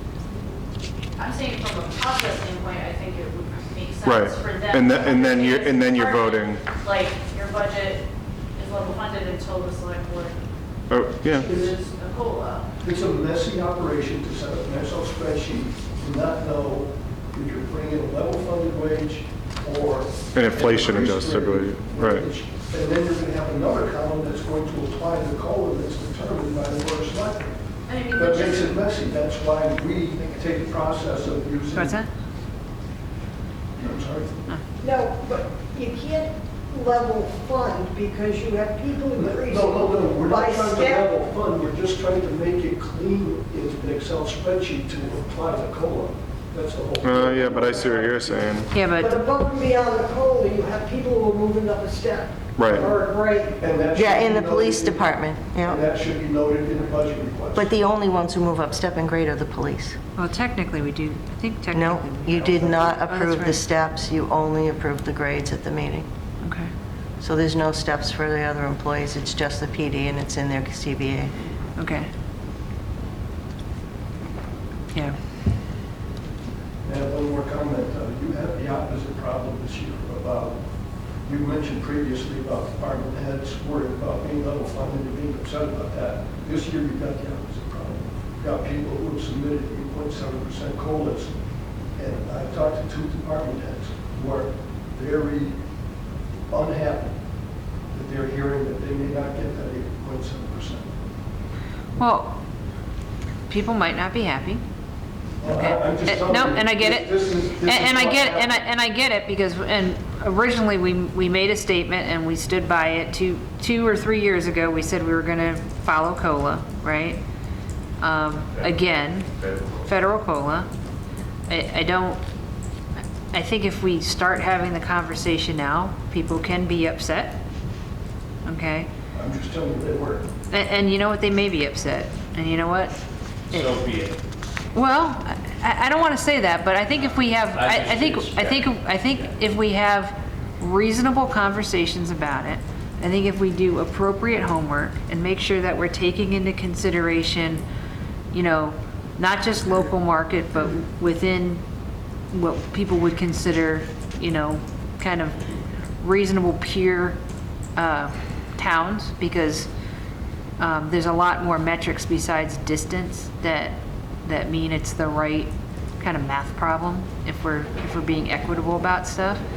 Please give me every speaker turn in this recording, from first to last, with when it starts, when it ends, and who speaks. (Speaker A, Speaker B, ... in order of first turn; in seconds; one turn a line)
Speaker A: 1.2-8.0
Speaker B: 4.0-6.7
Speaker A: 8.6-10.4
Speaker B: 10.9-11.5
Speaker A: 11.2-12.7
Speaker C: 12.8-27.6
Speaker B: 20.3-22.3
Speaker A: 27.9-28.8
Speaker C: 28.1-32.0
Speaker D: 31.7-32.1
Speaker C: 33.8-34.4
Speaker E: 34.8-41.2
Speaker C: 39.2-48.6
Speaker B: 47.0-48.8
Speaker D: 48.7-49.1
Speaker E: 48.9-53.6
Speaker B: 52.6-52.9
Speaker C: 52.6-53.0
Speaker C: 53.6-55.1
Speaker F: 54.0-55.8
Speaker C: 55.6-57.7
Speaker F: 57.6-60.0
Speaker D: 60.2-63.6
Speaker F: 61.7-66.1
Speaker D: 66.4-66.7
Speaker F: 67.2-71.3
Speaker D: 71.8-72.1
Speaker C: 76.8-80.6
Speaker C: 81.3-91.3
Speaker C: 92.0-95.6
Speaker C: 96.5-97.1
Speaker C: 97.9-100.9
Speaker D: 102.0-102.4
Speaker D: 103.5-104.6
Speaker C: 105.4-108.6
Speaker D: 105.5-117.2
Speaker D: 118.0-119.3
Speaker G: 118.6-119.9
Speaker D: 119.9-120.7
Speaker D: 121.5-122.2
Speaker D: 123.3-127.4
Speaker D: 128.4-128.9
Speaker C: 129.1-130.3
Speaker D: 130.5-133.0
Speaker G: 133.5-134.2
Speaker D: 134.8-147.6
Speaker G: 137.0-139.3
Speaker D: 148.3-151.6
Speaker D: 152.3-155.4
Speaker D: 156.0-157.2
Speaker D: 157.8-159.7
Speaker D: 160.6-169.4